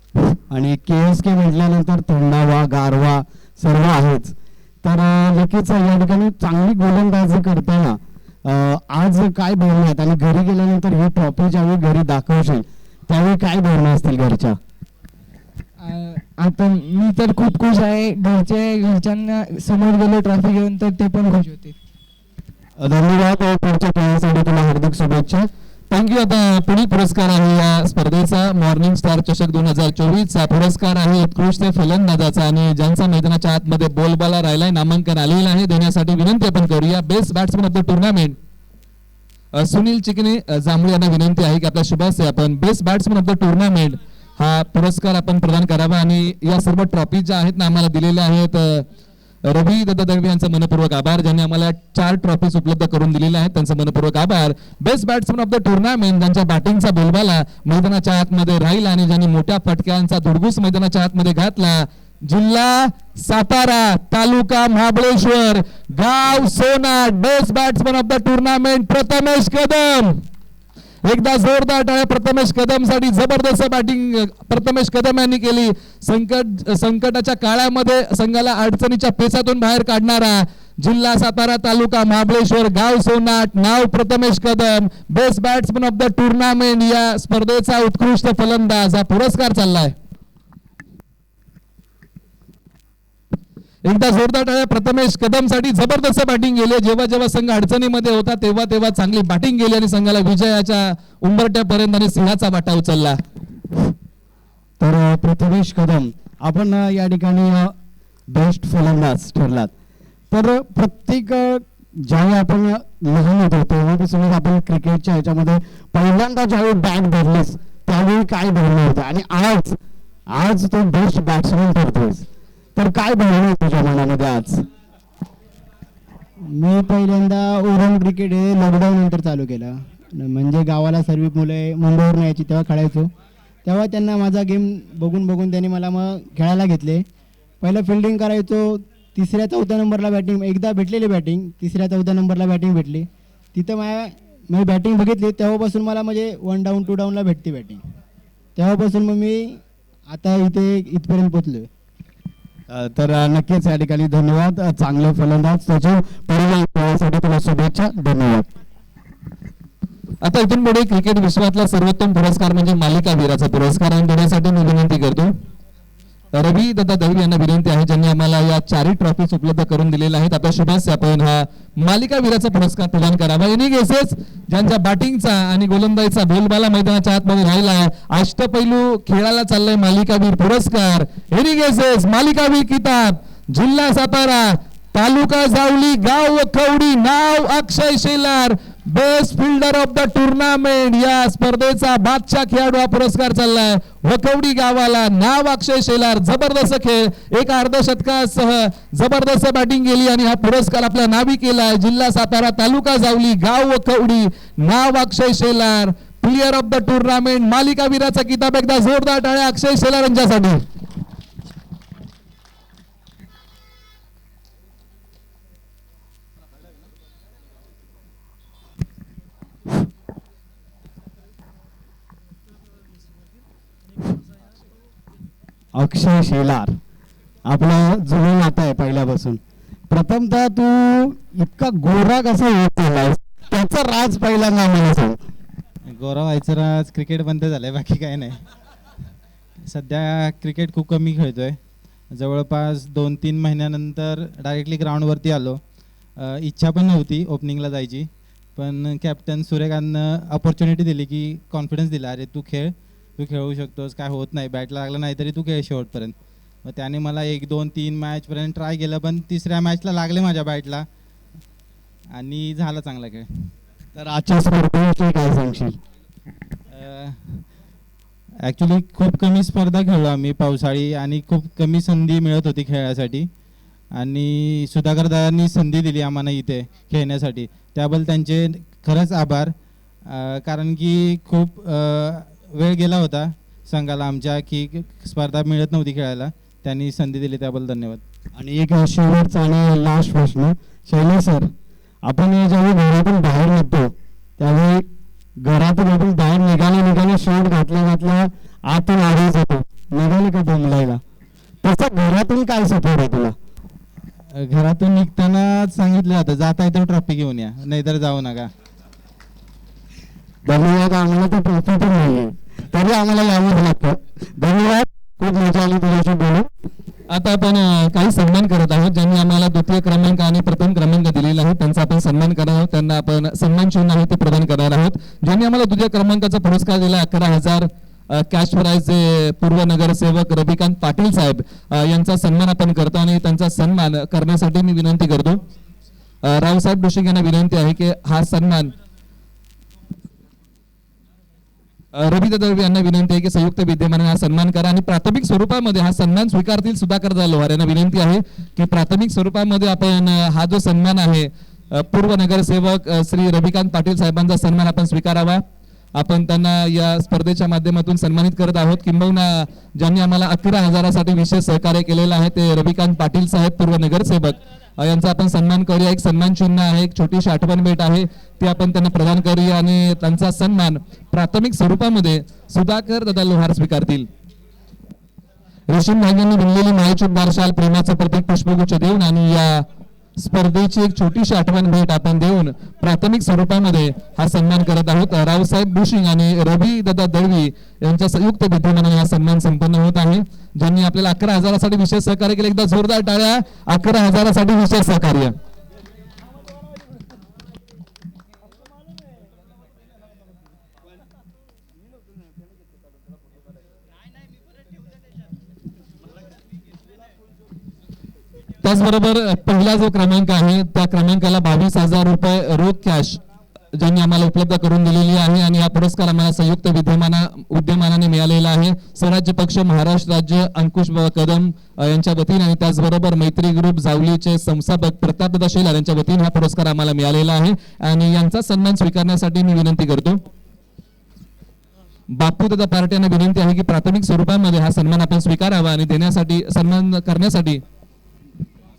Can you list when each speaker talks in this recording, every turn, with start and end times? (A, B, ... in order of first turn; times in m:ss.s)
0:00.5-0:14.6 A
0:15.8-0:21.8 B
0:22.8-0:25.5 A
0:25.9-0:38.4 C
0:39.5-0:48.9 C
0:49.4-1:10.2 C
1:11.0-1:29.9 C
1:33.8-1:43.2 C
1:44.8-1:47.7 A
1:48.3-1:49.7 A
1:50.3-1:59.8 A
2:00.3-2:04.7 A
2:06.4-2:13.1 D
2:13.6-2:17.0 D
2:17.6-2:27.8 D
2:28.6-2:31.7 D
2:32.7-2:34.8 D
2:34.4-2:38.5 A
2:40.2-2:45.3 C
2:46.3-3:30.6 C
3:45.8-3:46.8 A
3:47.5-3:55.2 A
3:55.8-3:58.4 E
3:59.7-4:01.6 E
4:02.1-4:05.6 E
4:06.2-4:20.9 E
4:22.1-4:23.5 E
4:24.0-4:25.8 A
4:26.7-4:27.4 E
4:28.4-4:33.3 E
4:33.9-4:39.5 E
4:40.0-4:48.0 E
4:48.4-4:51.5 A
4:52.0-4:54.8 A
4:55.4-5:01.0 A
5:01.6-5:03.4 A
5:04.3-5:08.5 E
5:10.4-5:16.5 A
5:17.1-5:35.4 C
5:36.2-5:38.7 C
5:41.9-5:55.4 C
5:56.0-6:14.1 C
6:15.7-6:35.4 C
6:48.6-6:53.2 C
6:53.7-7:10.2 C
7:12.1-7:17.6 C